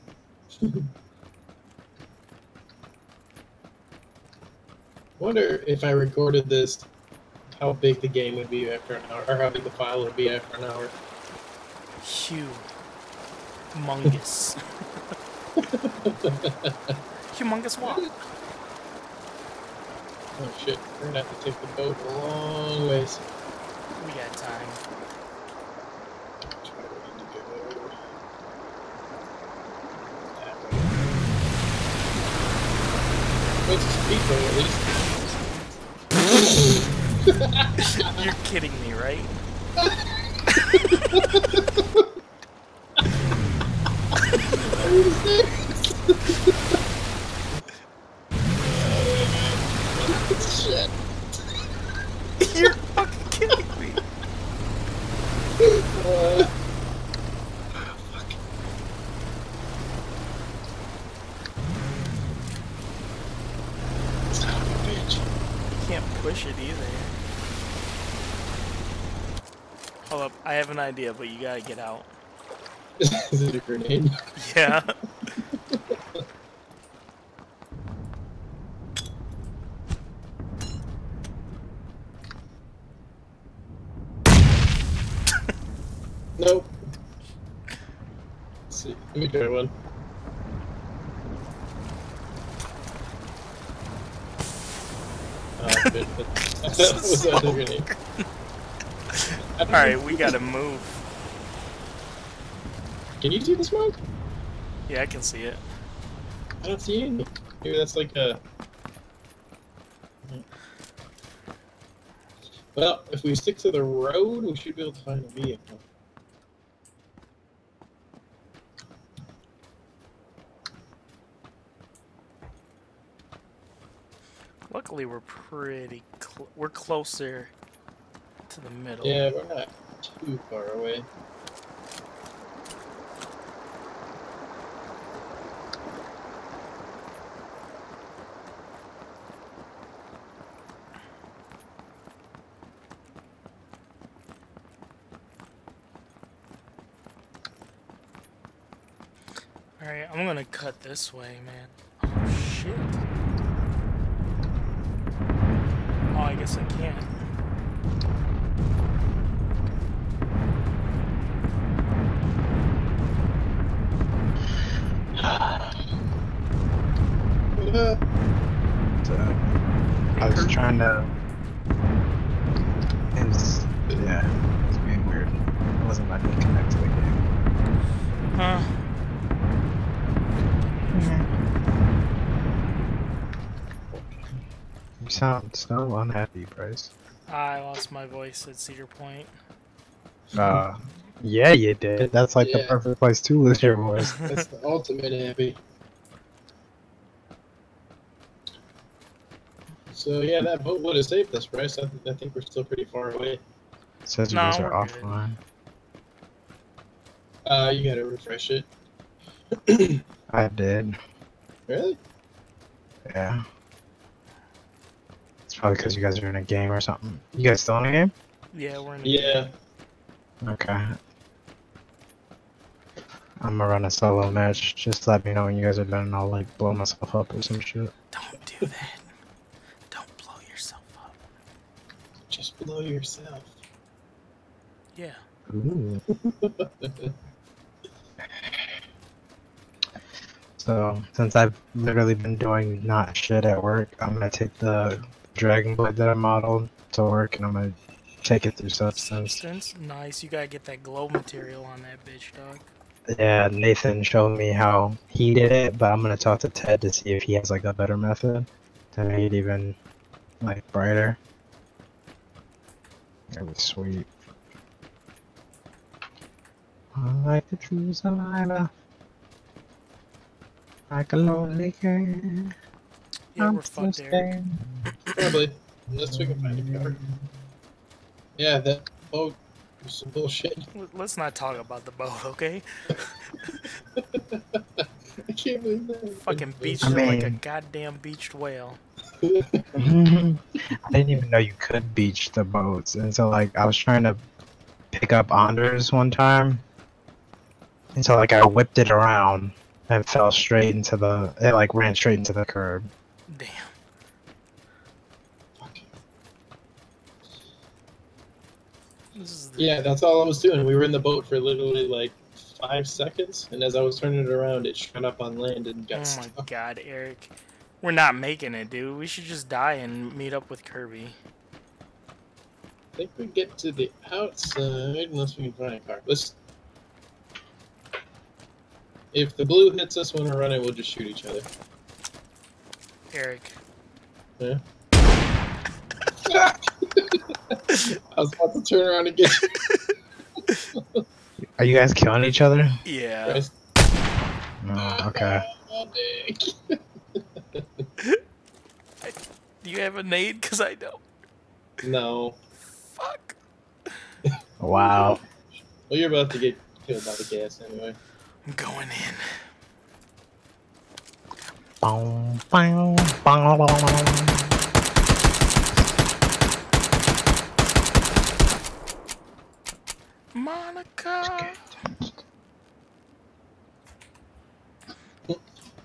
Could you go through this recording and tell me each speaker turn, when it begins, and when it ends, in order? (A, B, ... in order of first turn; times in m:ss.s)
0:00.6-0:00.9 A
0:05.2-0:06.9 A
0:07.5-0:10.9 A
0:12.0-0:12.7 B
0:13.7-0:14.6 B
0:15.6-0:17.0 A
0:17.3-0:18.2 B
0:17.8-0:18.1 A
0:20.4-0:23.2 A
0:24.0-0:24.8 B
0:26.5-0:28.0 A
0:30.3-0:31.1 A
0:33.6-0:35.2 A
0:36.2-0:38.3 A
0:37.8-0:39.4 B
0:39.8-0:40.1 A
0:40.5-0:41.5 B
0:40.9-0:42.1 A
0:44.6-0:46.8 A
0:48.6-0:51.0 A
0:52.4-0:54.0 B
0:55.6-0:56.5 A
0:57.8-0:58.3 A
1:04.3-1:05.3 A
1:05.7-1:07.1 B
1:10.1-1:12.1 B
1:13.0-1:14.7 A
1:14.4-1:15.0 B
1:15.7-1:16.2 A
1:26.4-1:26.7 A
1:28.7-1:29.7 A
1:35.6-1:37.9 A
1:36.5-1:38.3 B
1:39.1-1:41.0 B
1:39.6-1:40.3 A
1:43.2-1:44.0 A
1:44.9-1:45.6 B
1:46.6-1:48.4 A
1:52.8-1:55.8 A
2:04.7-2:07.5 B
2:08.5-2:09.2 B
2:09.0-2:11.1 A
2:29.8-2:33.0 B
2:36.1-2:37.1 B
2:45.2-2:45.8 C
2:47.6-2:48.0 A
2:49.0-2:49.4 C
2:50.2-2:50.8 B
2:50.2-2:51.1 C
2:53.2-2:57.2 C
2:58.3-2:58.8 B
3:00.7-3:01.4 B
3:00.9-3:01.3 C
3:03.9-3:04.2 A
3:05.0-3:06.9 C
3:07.3-3:09.3 B
3:10.4-3:14.2 C
3:12.4-3:12.8 A
3:14.2-3:15.6 A
3:19.9-3:23.4 A
3:24.1-3:25.4 C
3:24.3-3:25.2 B
3:27.5-3:28.7 A
3:29.7-3:30.0 A
3:30.3-3:31.0 C
3:31.7-3:32.0 A
3:33.1-3:33.4 C
3:35.5-3:38.1 C
3:38.5-3:39.5 B
3:39.0-3:39.5 A
3:40.4-3:41.0 C
3:43.4-3:47.9 C
3:48.1-3:49.1 B
3:49.9-3:51.2 B
3:52.3-3:53.5 A
3:54.9-3:55.2 B
3:55.5-3:56.0 C
3:56.2-3:57.1 A
3:58.4-3:58.7 C
4:00.6-4:09.4 C
4:09.0-4:12.7 B
4:13.1-4:19.8 C
4:20.4-4:21.2 C
4:23.3-4:24.1 C
4:26.9-4:28.7 C
4:30.9-4:32.6 C
4:33.3-4:34.3 B
4:33.4-4:34.9 C
4:35.2-4:37.0 A
4:36.0-4:37.2 C
4:38.4-4:40.7 A
4:40.7-4:43.6 B
4:44.0-4:47.1 A
4:46.2-4:48.8 B
4:46.8-4:47.4 C
4:49.2-4:49.9 A
4:49.8-4:54.2 C
4:54.9-4:56.6 C
4:57.9-5:02.9 C
5:03.3-5:03.7 B
5:05.6-5:05.9 A
5:09.2-5:09.7 B
5:09.6-5:16.4 A
5:15.9-5:21.2 B
5:23.0-5:26.4 A
5:29.1-5:31.5 A
5:33.1-5:33.6 B
5:36.2-5:39.6 A
5:40.7-5:41.0 A
5:41.4-5:42.8 C
5:42.8-5:43.4 B
5:43.3-5:43.5 A
5:44.6-5:45.4 C
5:44.8-5:47.9 A
5:49.0-5:51.0 B
5:51.8-5:52.4 A
5:53.0-5:53.4 B
5:54.3-5:58.0 A
5:54.6-5:55.2 C
5:58.4-5:59.4 B
6:01.8-6:04.5 C
6:10.3-6:11.7 B
6:11.2-6:12.2 C